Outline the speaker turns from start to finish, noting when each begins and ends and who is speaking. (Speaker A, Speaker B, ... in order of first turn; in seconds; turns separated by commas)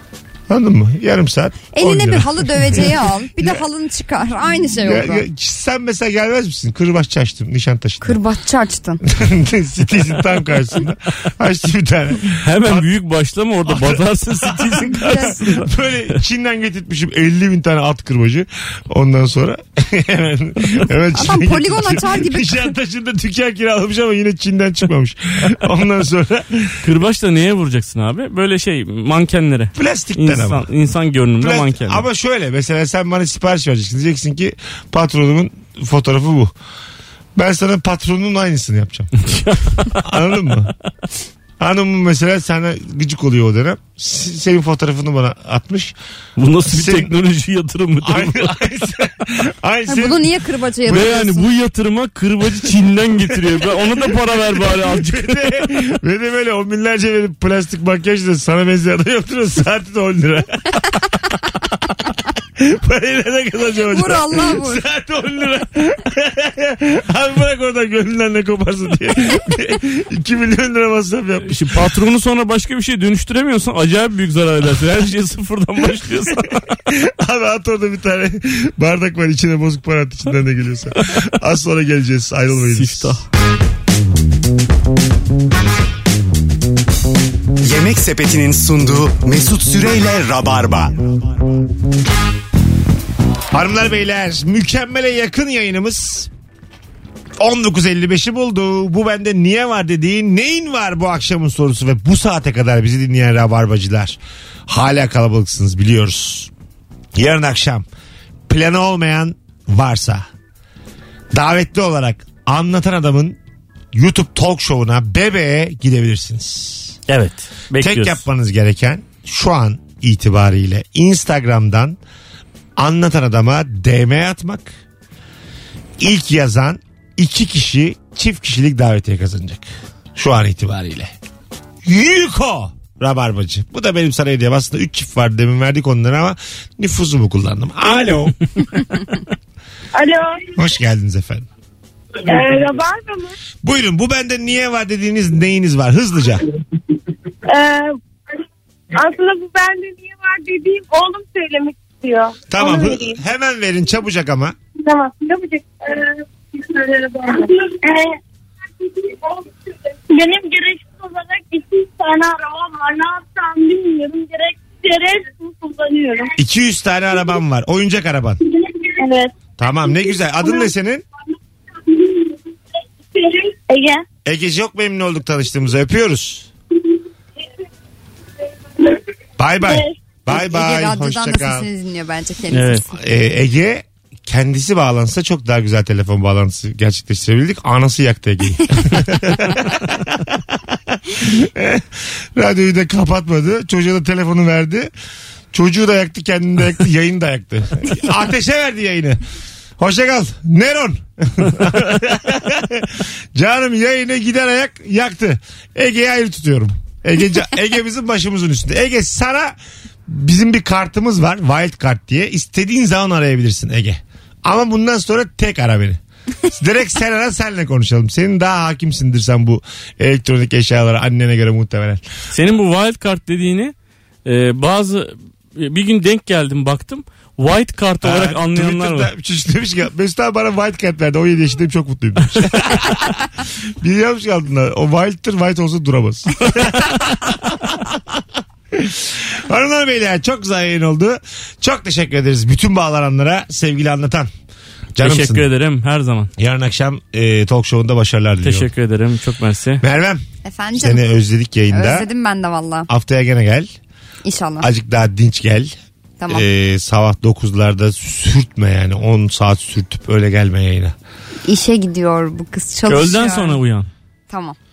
Speaker A: 0.5-3.6, Speaker B: 1.7-5.2, Speaker A: 4.6-8.2, Speaker B: 8.0-9.0, Speaker A: 9.0-12.9, Speaker C: 12.4-16.2, Speaker A: 13.7-26.9, Speaker B: 15.0-15.4, Speaker B: 21.1-22.7, Speaker C: 26.8-32.0, Speaker A: 29.7-30.7, Speaker A: 31.4-36.5, Speaker A: 37.4-40.7, Speaker C: 39.2-39.9, Speaker A: 41.6-45.9, Speaker C: 46.4-48.5, Speaker A: 46.6-47.1, Speaker A: 48.0-51.4, Speaker B: 49.9-51.4, Speaker C: 50.9-55.6, Speaker A: 53.2-71.9, Speaker B: 63.9-64.8, Speaker C: 71.4-76.7, Speaker A: 76.8-83.2, Speaker C: 82.6-83.3, Speaker D: 87.6-91.0, Speaker A: 93.5-96.3, Speaker A: 97.4-106.5, Speaker A: 107.1-107.9, Speaker A: 108.5-110.2, Speaker A: 111.3-113.4, Speaker A: 113.9-117.0, Speaker C: 117.1-118.2, Speaker A: 117.7-122.0, Speaker A: 122.8-124.7, Speaker A: 126.0-131.1, Speaker A: 131.8-138.3, Speaker E: 139.9-140.6, Speaker A: 140.5-141.4, Speaker E: 142.2-143.3, Speaker A: 143.6-146.5, Speaker E: 147.4-148.0, Speaker E: 148.9-153.2, Speaker A: 152.5-154.6, Speaker E: 154.8-158.2, Speaker E: 158.8-159.4, Speaker E: 160.1-166.3, Speaker A: 166.3-168.4, Speaker E: 168.5-169.3, Speaker A: 169.6-171.0, Speaker E: 169.8-170.7, Speaker E: 171.9-172.4, Speaker E: 173.1-174.0, Speaker A: 174.2-176.5, Speaker A: 179.4-181.7, Speaker E: 179.6-179.9, Speaker B: 180.3-182.9, Speaker C: 182.5-182.8, Speaker A: 182.9-194.9, Speaker A: 195.5-199.2, Speaker A: 199.8-209.5, Speaker A: 210.1-222.0, Speaker C: 222.3-223.7, Speaker C: 224.2-229.1, Speaker A: 228.0-244.3, Speaker A: 244.9-245.5, Speaker C: 245.0-246.3, Speaker A: 246.4-248.7, Speaker C: 248.4-249.8, Speaker A: 249.8-250.2, Speaker B: 250.4-251.1, Speaker A: 250.7-252.1, Speaker B: 251.7-252.9, Speaker A: 252.9-253.7, Speaker B: 254.2-254.7, Speaker A: 254.6-255.7, Speaker B: 256.2-256.4, Speaker A: 256.3-260.9, Speaker B: 261.4-263.6, Speaker C: 262.9-263.9, Speaker B: 264.3-264.6